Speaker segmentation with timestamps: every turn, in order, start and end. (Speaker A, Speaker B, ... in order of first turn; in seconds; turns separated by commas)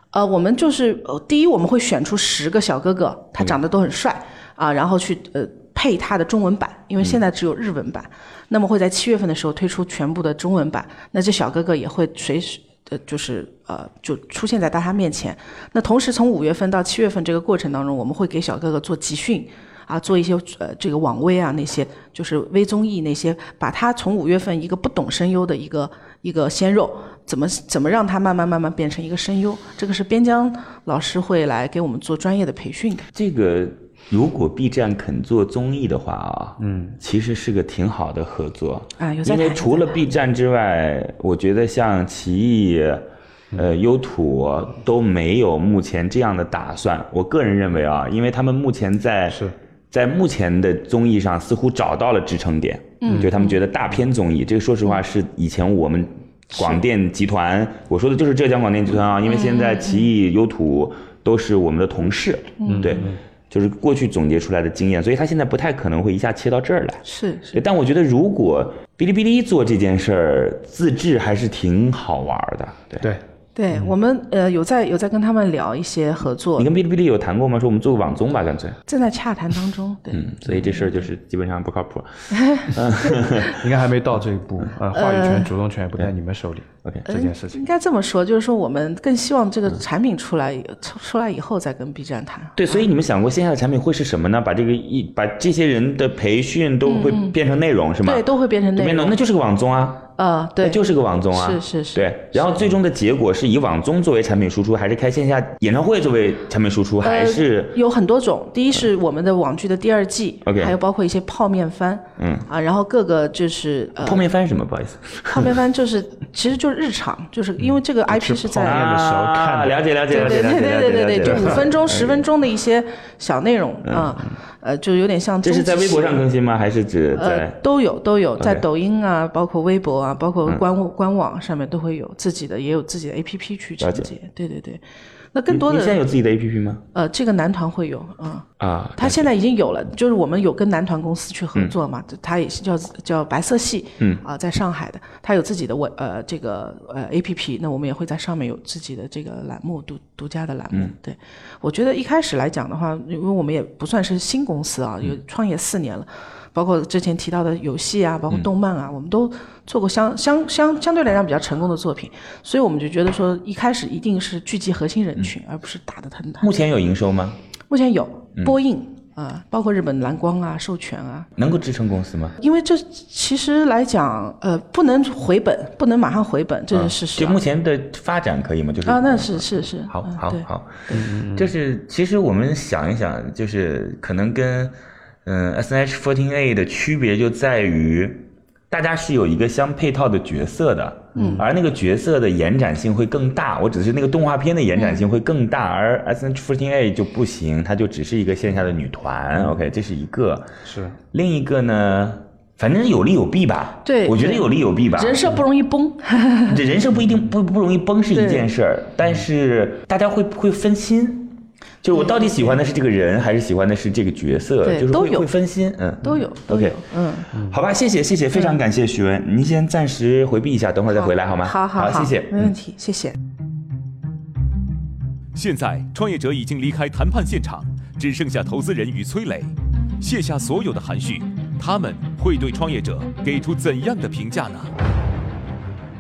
Speaker A: 0.1-33.1, Speaker B: 33.1-67.0, Speaker C: 36.6-37.0, Speaker A: 39.0-40.0, Speaker C: 49.3-49.5, Speaker A: 53.0-53.6, Speaker C: 53.1-53.3, Speaker A: 56.5-56.8, Speaker A: 59.3-60.1, Speaker A: 62.6-63.0, Speaker C: 62.7-63.2, Speaker A: 67.0-67.6, Speaker B: 67.5-73.1, Speaker C: 73.0-73.9, Speaker A: 73.6-76.7, Speaker B: 76.6-78.8, Speaker A: 78.9-80.3, Speaker B: 80.1-83.6, Speaker A: 82.3-83.2, Speaker C: 83.5-87.7, Speaker A: 84.9-85.5, Speaker A: 87.1-92.8, Speaker B: 92.6-100.1, Speaker A: 96.8-97.3, Speaker A: 98.0-99.2, Speaker A: 100.2-102.7, Speaker B: 100.6-107.8, Speaker A: 107.0-114.2, Speaker B: 110.4-110.8, Speaker B: 112.2-112.5, Speaker B: 114.0-115.5, Speaker A: 115.3-118.8, Speaker C: 118.1-119.8, Speaker B: 118.6-122.3, Speaker A: 120.1-126.2, Speaker C: 121.2-121.5, Speaker B: 123.8-124.1, Speaker B: 125.4-127.6, Speaker A: 127.2-134.8, Speaker B: 128.4-128.6, Speaker B: 133.8-134.1, Speaker A: 135.3-136.0, Speaker B: 135.5-136.8, Speaker A: 136.9-166.5, Speaker B: 138.6-139.3, Speaker B: 166.4-167.4, Speaker A: 167.7-171.3, Speaker B: 171.4-172.4, Speaker A: 172.4-177.4, Speaker B: 176.7-200.5, Speaker A: 178.9-181.0, Speaker C: 180.9-181.5, Speaker A: 191.2-191.4, Speaker C: 191.2-191.5, Speaker A: 194.8-195.0, Speaker C: 200.7-201.0, Speaker B: 201.1-205.3, Speaker A: 203.8-206.6, Speaker B: 206.5-222.5, Speaker A: 208.1-208.5, Speaker A: 211.9-212.4, Speaker A: 214.6-215.3, Speaker A: 216.0-217.3, Speaker A: 220.9-223.2, Speaker D: 225.3-234.7